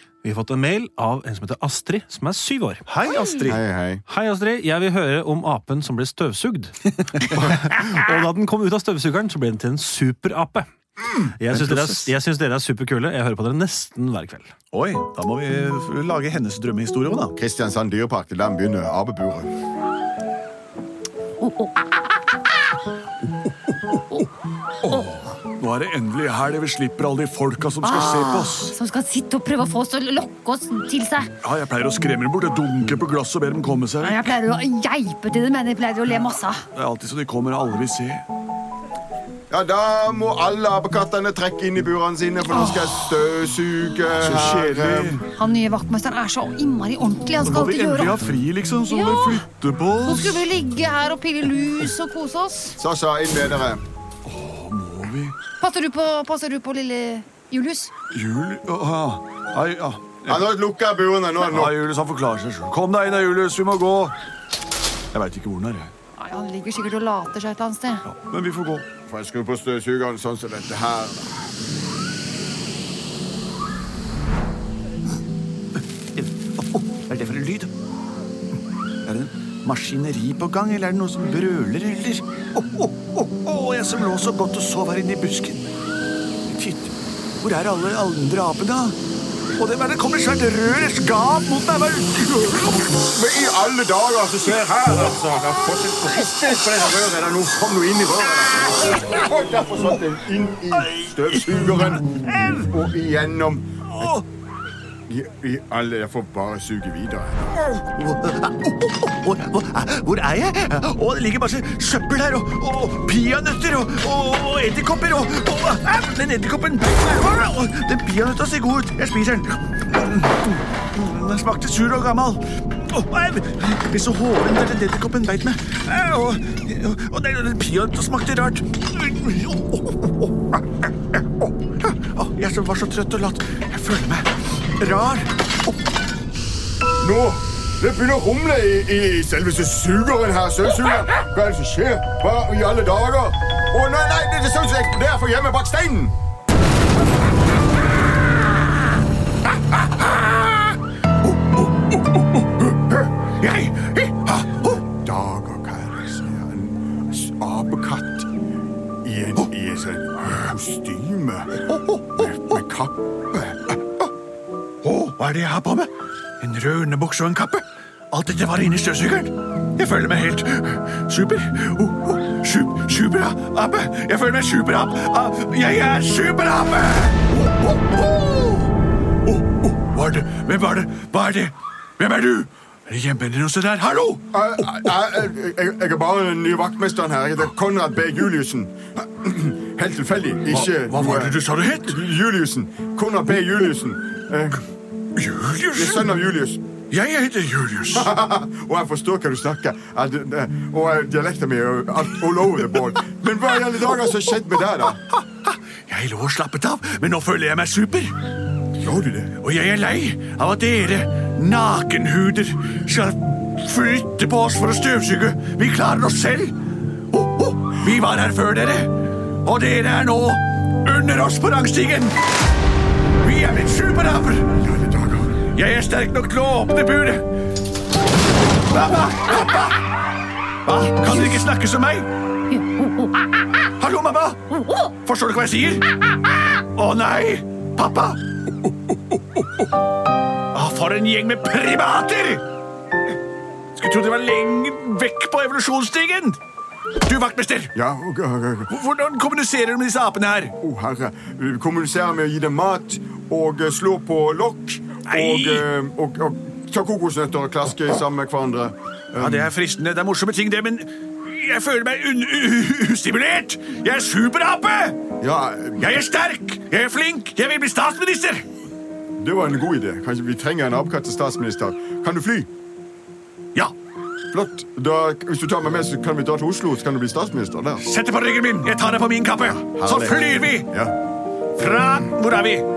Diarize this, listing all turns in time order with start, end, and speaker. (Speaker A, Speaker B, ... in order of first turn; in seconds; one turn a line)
Speaker A: 0.2-2.8
Speaker B: 2.9-3.6
Speaker C: 3.5-4.0
Speaker A: 4.1-14.5
Speaker B: 11.5-12.1
Speaker B: 14.7-17.4
Speaker C: 17.4-19.5
Speaker D: 21.4-21.9
Speaker B: 23.9-24.3
Speaker B: 24.8-28.8
Speaker D: 27.8-31.3
Speaker B: 31.4-34.3
Speaker D: 34.0-36.6
Speaker B: 36.7-38.3
Speaker C: 39.5-45.2
Speaker D: 42.6-42.9
Speaker B: 44.1-45.3
Speaker D: 45.2-48.2
Speaker B: 47.4-50.5
Speaker D: 48.9-49.5
Speaker D: 50.0-52.8
Speaker C: 52.8-53.8
Speaker B: 54.2-55.4
Speaker D: 55.6-57.9
Speaker B: 58.1-60.4
Speaker C: 60.3-61.8
Speaker B: 61.4-64.2
Speaker B: 65.1-65.9
Speaker D: 66.2-68.0
Speaker B: 68.0-68.9
Speaker C: 69.1-71.4
Speaker B: 76.2-77.7
Speaker B: 79.0-85.7
Speaker B: 86.5-89.0
Speaker B: 89.5-92.9
Speaker C: 92.9-104.1
Speaker B: 100.8-102.7
Speaker B: 103.9-104.3
Speaker C: 105.1-107.5
Speaker B: 107.7-130.6
Speaker B: 131.8-135.3
Speaker C: 137.0-146.1
Speaker B: 150.0-150.6
Speaker B: 151.2-154.8
Speaker C: 154.7-158.3
Speaker C: 159.0-163.4
Speaker B: 161.7-162.6
Speaker B: 164.8-178.7
Speaker B: 179.2-184.9
Speaker C: 184.3-194.6
Speaker B: 190.5-192.0
Speaker B: 195.2-196.1
Speaker C: 195.7-196.6
Speaker B: 196.9-198.1
Speaker C: 197.9-205.0
Speaker B: 205.4-208.2
Speaker C: 208.8-209.3
Speaker B: 209.4-216.6
Speaker B: 217.1-222.2
Speaker B: 223.2-224.5
Speaker C: 224.6-225.4
Speaker B: 225.5-227.2
Speaker B: 228.7-229.8
Speaker B: 230.7-232.1
Speaker D: 232.6-232.9
Speaker B: 233.6-235.9
Speaker B: 236.4-238.2
Speaker B: 240.5-242.4
Speaker B: 243.8-246.4
Speaker B: 247.0-247.7
Speaker C: 247.8-248.7
Speaker B: 248.7-250.6
Speaker C: 250.6-259.5
Speaker B: 255.1-255.7
Speaker B: 259.1-265.0
Speaker C: 265.2-266.0
Speaker B: 265.8-268.5
Speaker C: 269.2-272.5
Speaker C: 274.3-277.9
Speaker B: 277.8-280.7
Speaker C: 279.4-280.9
Speaker B: 281.6-282.7